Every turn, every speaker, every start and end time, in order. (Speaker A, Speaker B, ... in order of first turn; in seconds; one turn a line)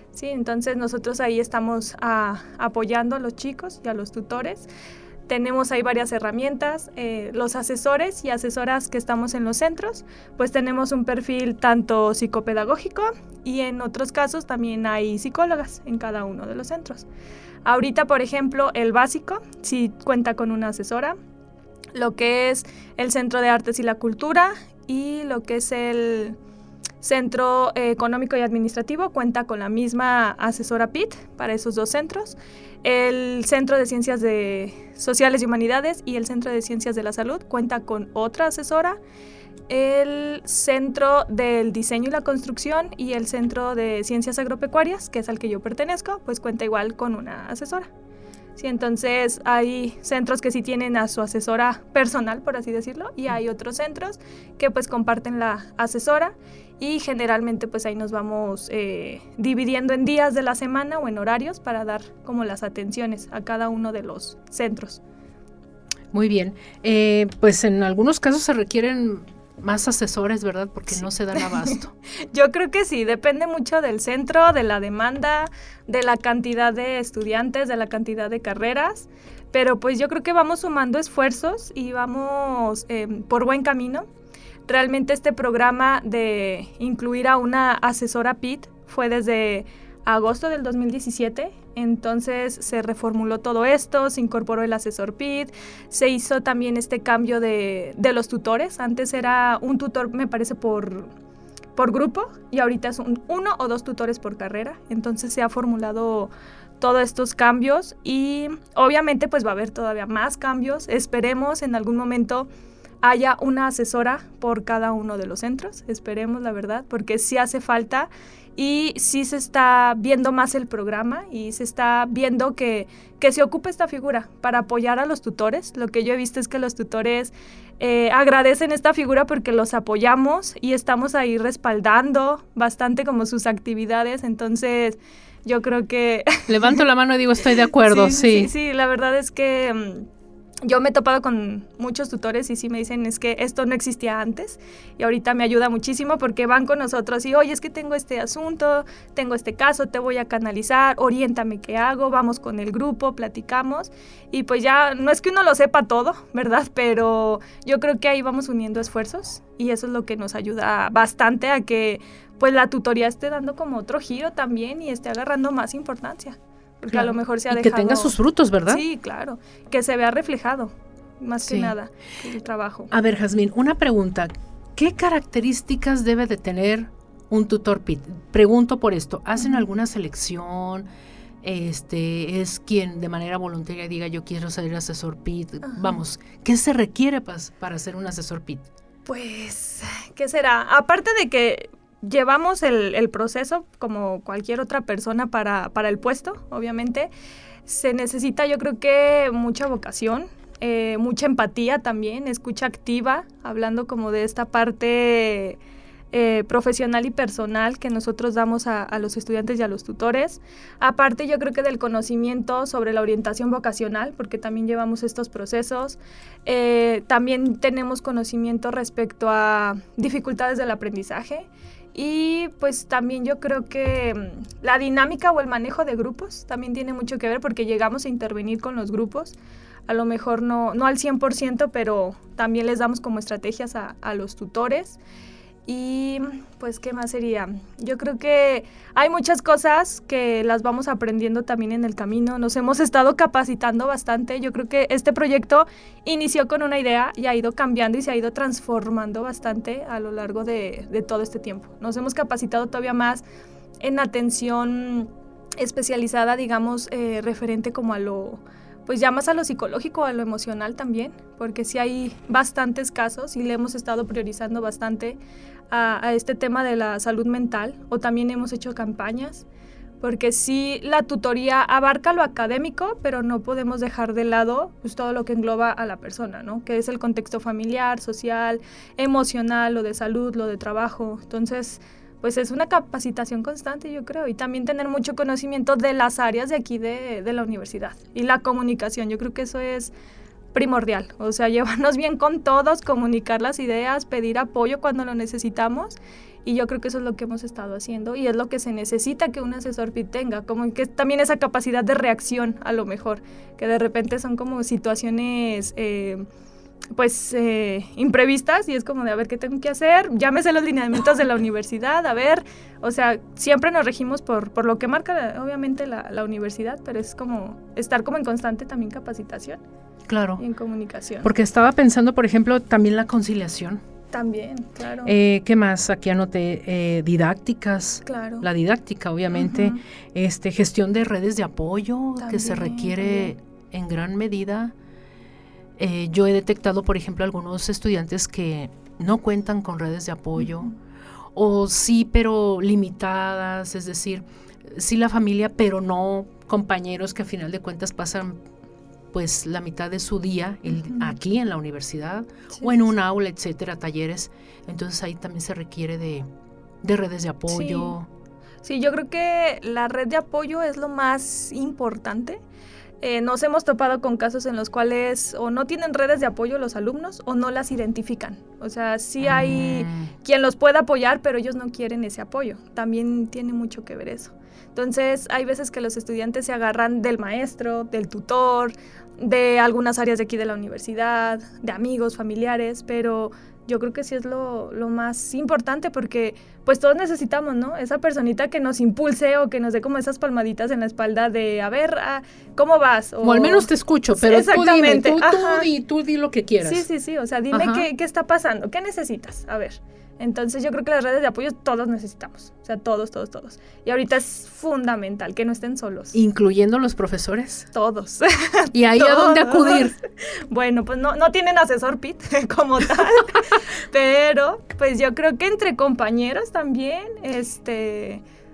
Speaker A: 0.1-4.7
Speaker A: 5.3-17.1
Speaker A: 17.6-21.1
Speaker A: 21.9-26.4
Speaker A: 27.0-39.0
Speaker A: 39.7-47.9
Speaker A: 48.6-65.0
Speaker B: 66.1-71.9
Speaker A: 71.3-84.1
Speaker A: 84.7-101.1
Speaker A: 101.8-112.5
Speaker A: 113.0-136.8
Speaker B: 136.5-138.5
Speaker A: 137.8-140.1
Speaker A: 140.6-168.2
Speaker B: 166.9-168.8
Speaker A: 168.7-172.9
Speaker B: 171.4-171.8
Speaker B: 172.9-180.9
Speaker B: 181.4-188.7
Speaker A: 185.7-185.9
Speaker A: 189.1-197.1
Speaker A: 197.7-205.6
Speaker A: 206.1-229.4
Speaker A: 229.9-235.0
Speaker A: 235.7-253.2
Speaker A: 253.8-265.2
Speaker A: 265.7-269.4
Speaker A: 270.0-289.9
Speaker A: 290.5-306.3
Speaker A: 306.9-319.6
Speaker B: 320.1-320.4
Speaker A: 320.4-321.3
Speaker B: 321.2-323.8
Speaker A: 324.1-325.1
Speaker B: 325.1-334.7
Speaker A: 328.1-328.5
Speaker A: 329.3-329.8
Speaker A: 332.2-333.3
Speaker B: 335.8-340.7
Speaker B: 341.3-348.4
Speaker B: 349.1-356.3
Speaker A: 350.8-351.1
Speaker B: 356.8-358.1
Speaker A: 357.5-357.9
Speaker A: 358.6-362.4
Speaker A: 363.0-395.7
Speaker B: 369.2-370.1
Speaker B: 393.2-396.9
Speaker A: 396.6-406.1
Speaker B: 397.5-397.9
Speaker B: 406.1-407.7
Speaker A: 407.7-418.2
Speaker B: 408.7-410.0